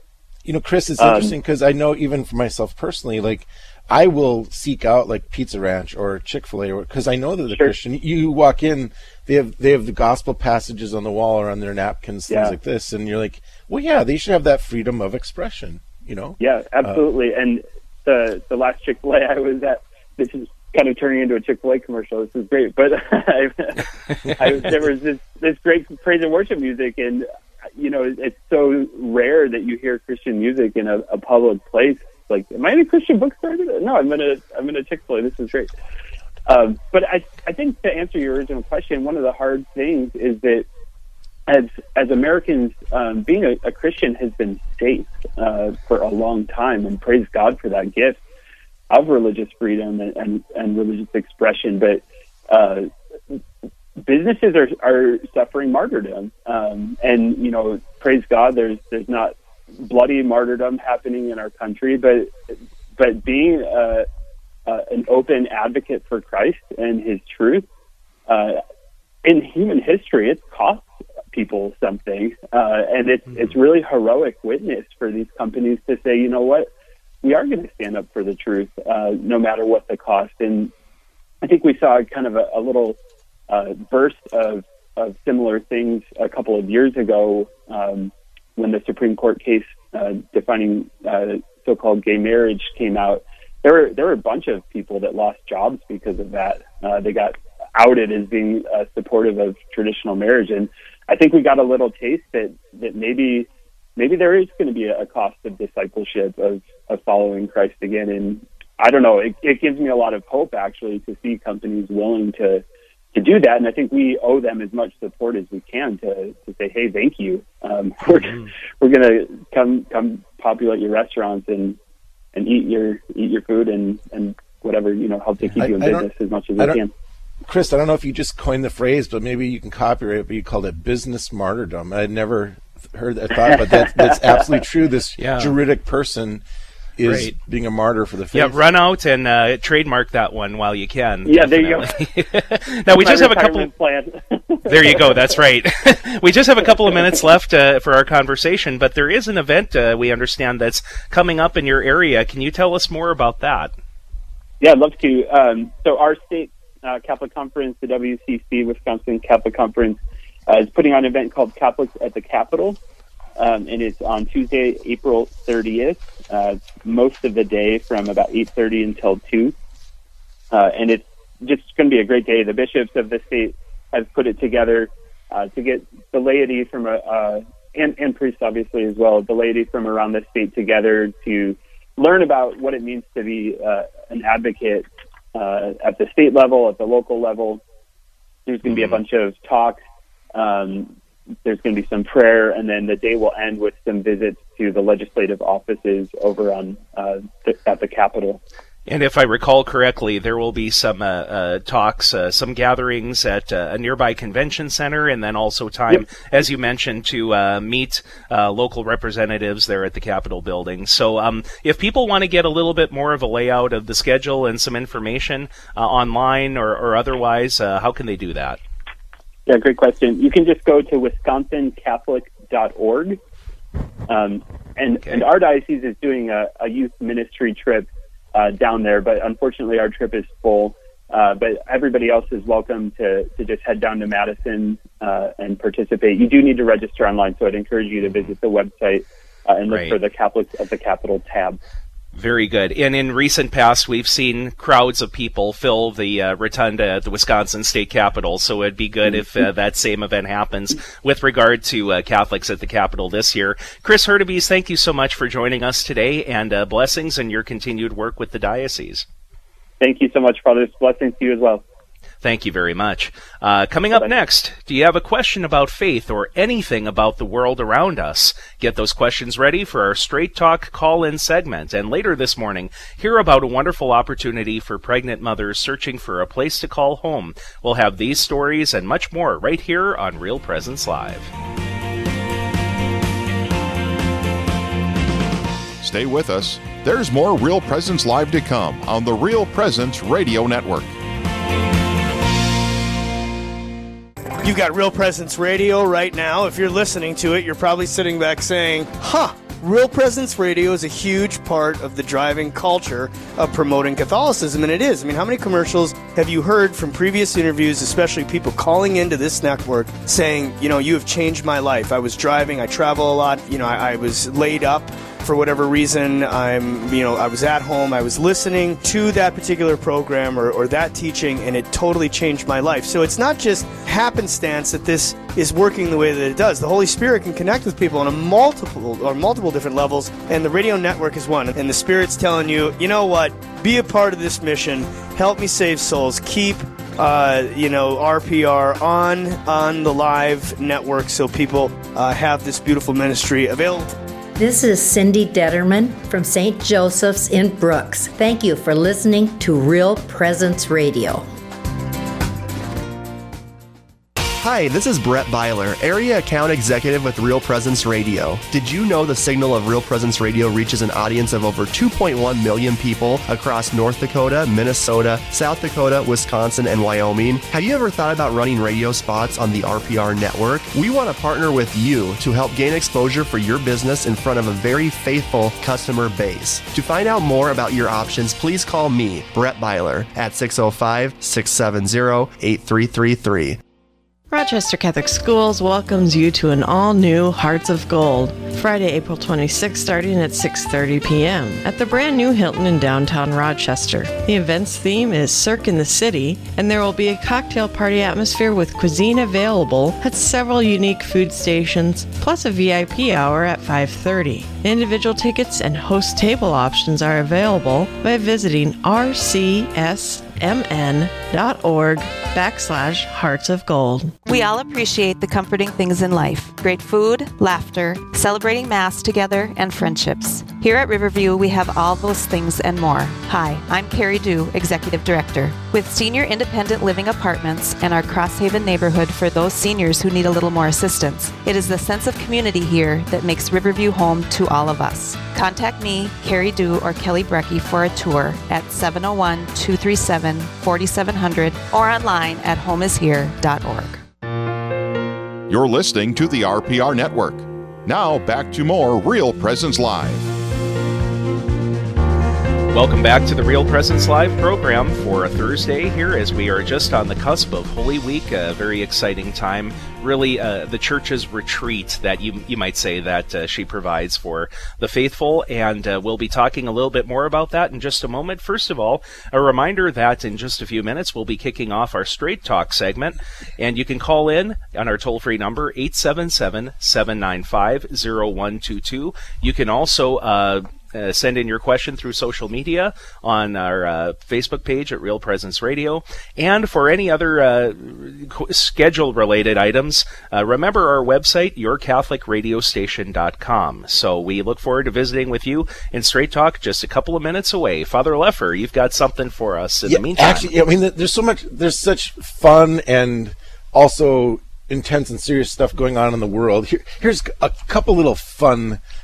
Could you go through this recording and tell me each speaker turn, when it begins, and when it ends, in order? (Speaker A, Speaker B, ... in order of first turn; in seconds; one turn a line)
Speaker A: 0.5-17.0
Speaker B: 1.0-1.4
Speaker B: 12.3-12.6
Speaker B: 16.4-35.7
Speaker B: 36.5-40.7
Speaker B: 41.5-48.2
Speaker B: 48.9-52.9
Speaker B: 54.0-62.4
Speaker B: 63.0-64.1
Speaker B: 64.7-67.7
Speaker B: 68.3-68.6
Speaker B: 69.2-76.7
Speaker B: 77.2-80.7
Speaker B: 81.4-83.0
Speaker B: 83.5-112.6
Speaker B: 113.2-121.8
Speaker B: 122.3-126.9
Speaker A: 125.6-126.1
Speaker A: 127.5-136.4
Speaker B: 133.5-134.4
Speaker C: 135.2-135.6
Speaker A: 137.0-138.6
Speaker C: 137.0-137.3
Speaker C: 138.3-143.7
Speaker B: 141.2-142.0
Speaker B: 142.9-145.3
Speaker C: 144.7-153.7
Speaker B: 154.6-162.8
Speaker B: 163.4-169.5
Speaker B: 170.5-187.6
Speaker B: 188.5-189.8
Speaker C: 188.7-189.0
Speaker B: 190.3-190.9
Speaker B: 191.4-198.4
Speaker C: 198.9-218.6
Speaker B: 219.5-223.2
Speaker B: 224.1-241.6
Speaker C: 238.1-238.3
Speaker C: 239.7-240.0
Speaker C: 242.1-259.1
Speaker B: 259.8-261.6
Speaker C: 262.2-281.3
Speaker D: 285.8-290.9
Speaker E: 294.4-343.9
Speaker F: 344.4-351.2
Speaker G: 354.4-383.6
Speaker H: 384.3-414.2
Speaker I: 414.2-444.0
Speaker D: 445.5-450.3
Speaker C: 452.7-500.5
Speaker A: 499.9-508.8